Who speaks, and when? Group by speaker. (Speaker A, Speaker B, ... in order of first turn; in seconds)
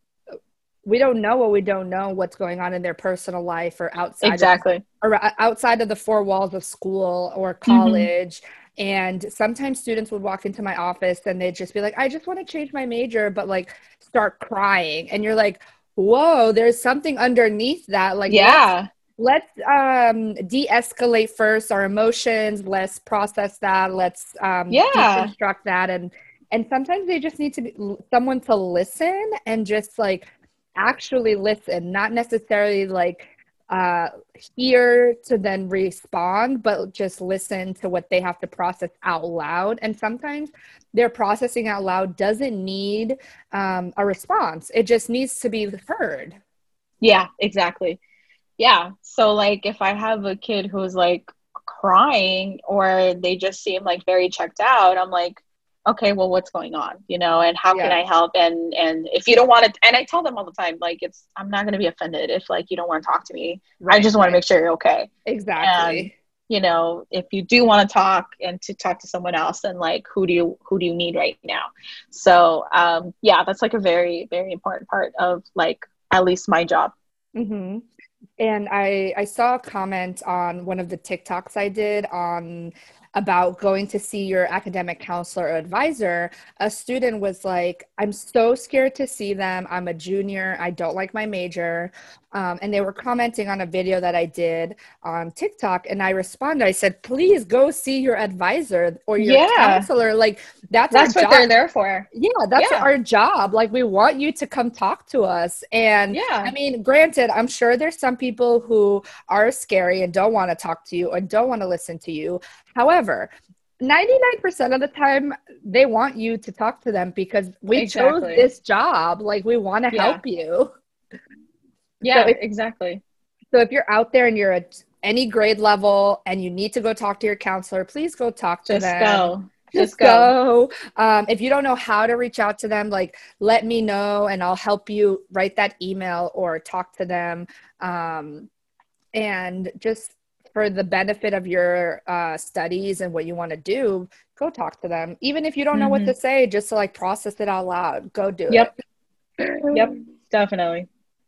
Speaker A: 0.8-30.3, 30.8-46.4, 57.7-58.0, 63.8-64.4, 65.2-66.1, 77.3-77.8, 78.4-101.5, 102.1-120.7, 122.1-122.4, 123.5-138.5, 139.1-148.8, 149.4-149.9
Speaker B: 4.2-4.8, 7.7-8.1, 18.3-18.9, 24.7-25.3, 47.0-48.0, 48.6-65.1, 65.6-76.9, 99.2-99.9, 100.9-102.9, 106.1-106.5, 117.7-118.4, 119.9-120.2, 122.0-123.0, 128.7-130.3, 145.7-146.1, 149.7-150.9